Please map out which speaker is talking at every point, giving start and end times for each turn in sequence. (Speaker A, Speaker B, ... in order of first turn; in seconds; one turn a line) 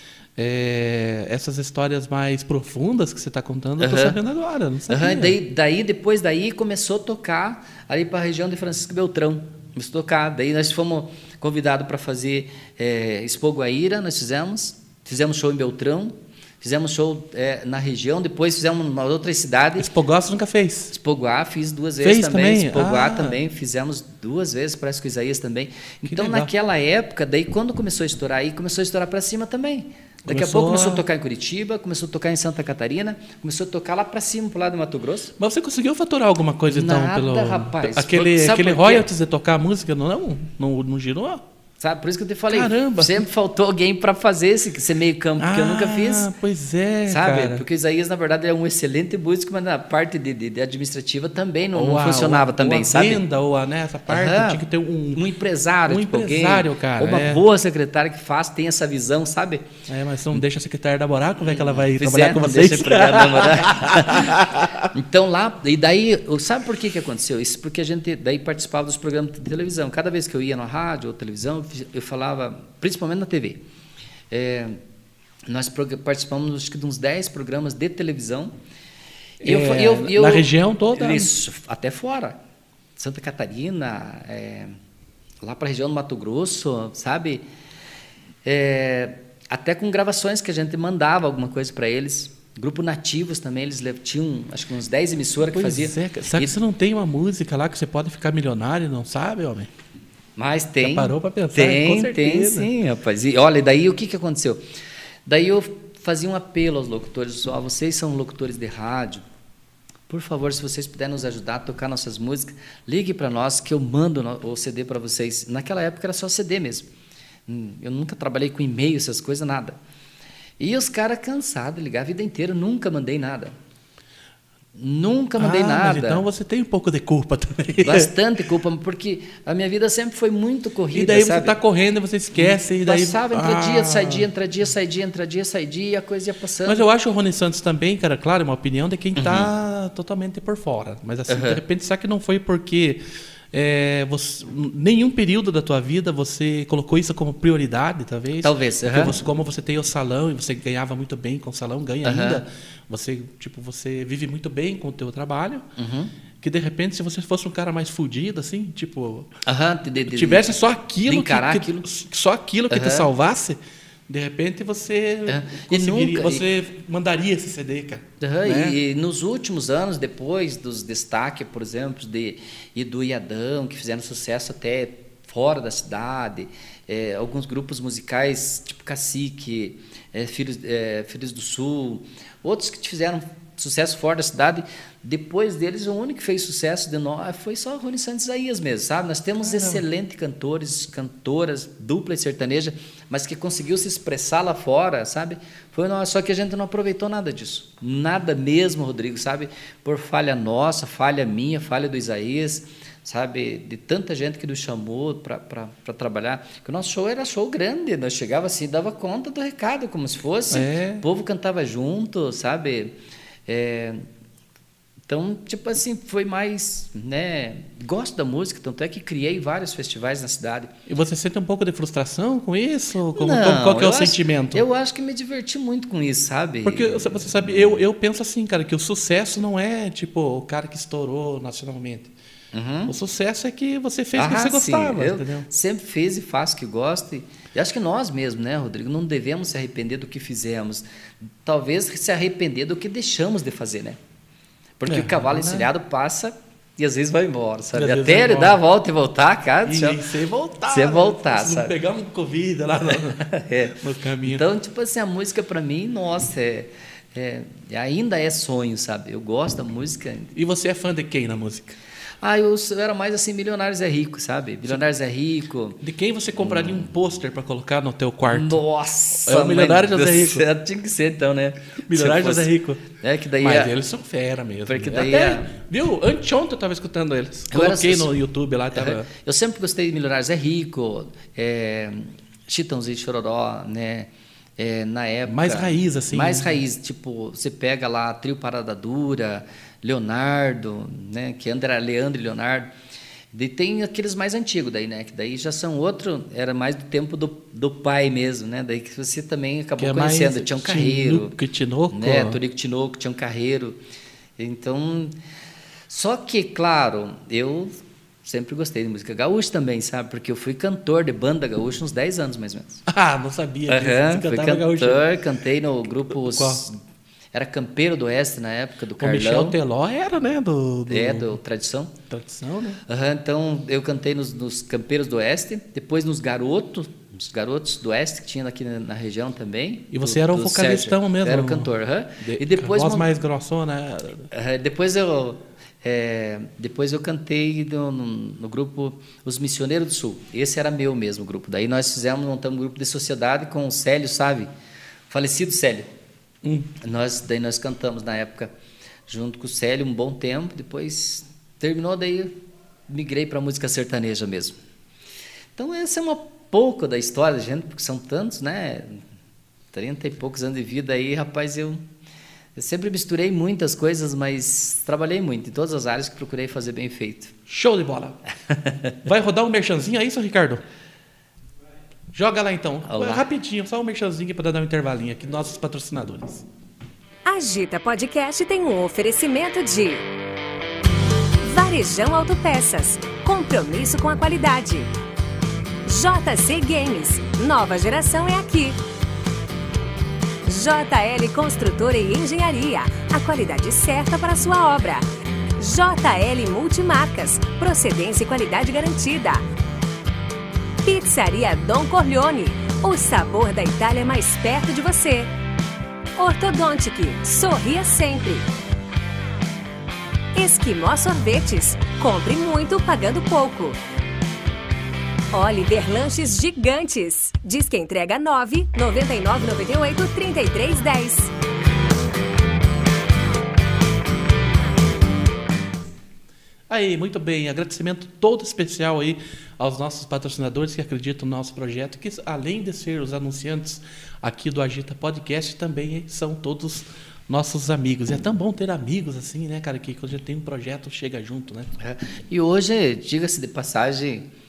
Speaker A: 0.4-5.4
Speaker B: 3.8-4.2
Speaker B: 4.9-19.9
Speaker A: 19.8-20.9
Speaker B: 20.9-35.3
Speaker A: 22.0-23.4
Speaker A: 26.0-26.5
Speaker A: 30.2-31.0
Speaker A: 35.4-41.4
Speaker B: 36.7-39.1
Speaker B: 41.8-46.3
Speaker A: 42.5-43.2
Speaker A: 45.4-47.6
Speaker B: 47.1-53.2
Speaker A: 51.7-55.2
Speaker B: 54.1-59.7
Speaker A: 55.9-57.4
Speaker A: 59.9-64.9
Speaker B: 61.5-73.6
Speaker B: 74.3-74.8
Speaker B: 75.5-78.5
Speaker B: 79.4-82.4
Speaker A: 79.4-81.3
Speaker B: 83.0-84.8
Speaker B: 85.4-87.4
Speaker B: 88.4-96.6
Speaker A: 95.5-99.7
Speaker B: 100.4-104.6
Speaker A: 100.8-102.7
Speaker B: 105.2-109.2
Speaker B: 110.1-116.9
Speaker B: 117.5-119.8
Speaker B: 120.6-123.5
Speaker B: 124.8-126.2
Speaker A: 125.4-128.1
Speaker B: 127.8-131.6
Speaker A: 130.9-134.3
Speaker B: 132.3-136.8
Speaker A: 136.6-143.0
Speaker B: 139.2-139.5
Speaker B: 141.3-141.6
Speaker A: 143.5-155.7
Speaker B: 148.4-149.2
Speaker B: 152.0-152.4
Speaker B: 155.8-156.1
Speaker A: 156.4-159.3
Speaker B: 159.4-161.9
Speaker A: 160.1-168.8
Speaker B: 162.7-163.1
Speaker B: 165.3-166.4
Speaker B: 168.2-212.9
Speaker A: 189.4-189.8
Speaker A: 210.5-211.0
Speaker B: 213.5-214.0
Speaker B: 215.1-220.7
Speaker A: 220.8-224.7
Speaker B: 223.1-227.6
Speaker A: 226.6-232.1
Speaker B: 232.5-232.9
Speaker A: 232.9-235.5
Speaker B: 234.1-240.8
Speaker B: 241.4-244.0
Speaker B: 244.8-250.0
Speaker A: 244.9-245.7
Speaker A: 247.7-248.6
Speaker A: 249.6-254.4
Speaker B: 250.7-251.7
Speaker B: 253.1-260.3
Speaker A: 260.3-261.8
Speaker B: 262.2-265.8
Speaker A: 265.8-268.6
Speaker B: 266.4-266.9
Speaker B: 268.3-273.7
Speaker A: 269.2-270.4
Speaker A: 271.9-272.8
Speaker A: 273.4-279.1
Speaker B: 274.6-275.5
Speaker B: 277.5-278.1
Speaker B: 278.7-292.7
Speaker A: 285.2-286.6
Speaker B: 293.3-301.4
Speaker A: 299.8-302.4
Speaker B: 301.9-303.8
Speaker B: 304.4-305.1
Speaker B: 305.9-312.8
Speaker A: 312.9-315.1
Speaker B: 313.7-316.8
Speaker A: 316.1-316.6
Speaker B: 317.3-319.6
Speaker A: 319.0-321.4
Speaker B: 320.9-321.9
Speaker A: 322.1-322.8
Speaker B: 322.9-333.1
Speaker A: 329.9-334.3
Speaker B: 334.3-344.5
Speaker B: 345.1-345.9
Speaker A: 346.4-346.7
Speaker B: 346.8-348.5
Speaker B: 349.1-352.3
Speaker B: 352.9-354.6
Speaker B: 355.6-359.0
Speaker B: 359.7-361.8
Speaker B: 362.6-367.3
Speaker A: 367.5-368.2
Speaker A: 369.0-370.6
Speaker A: 372.1-376.4
Speaker B: 372.8-373.2
Speaker C: 377.2-380.0
Speaker C: 381.4-384.9
Speaker C: 385.8-388.8
Speaker C: 390.4-395.1
Speaker C: 395.6-399.4
Speaker C: 400.8-405.3
Speaker C: 406.2-408.4
Speaker C: 410.3-413.8
Speaker C: 415.3-421.3
Speaker A: 426.7-441.7
Speaker B: 441.8-444.3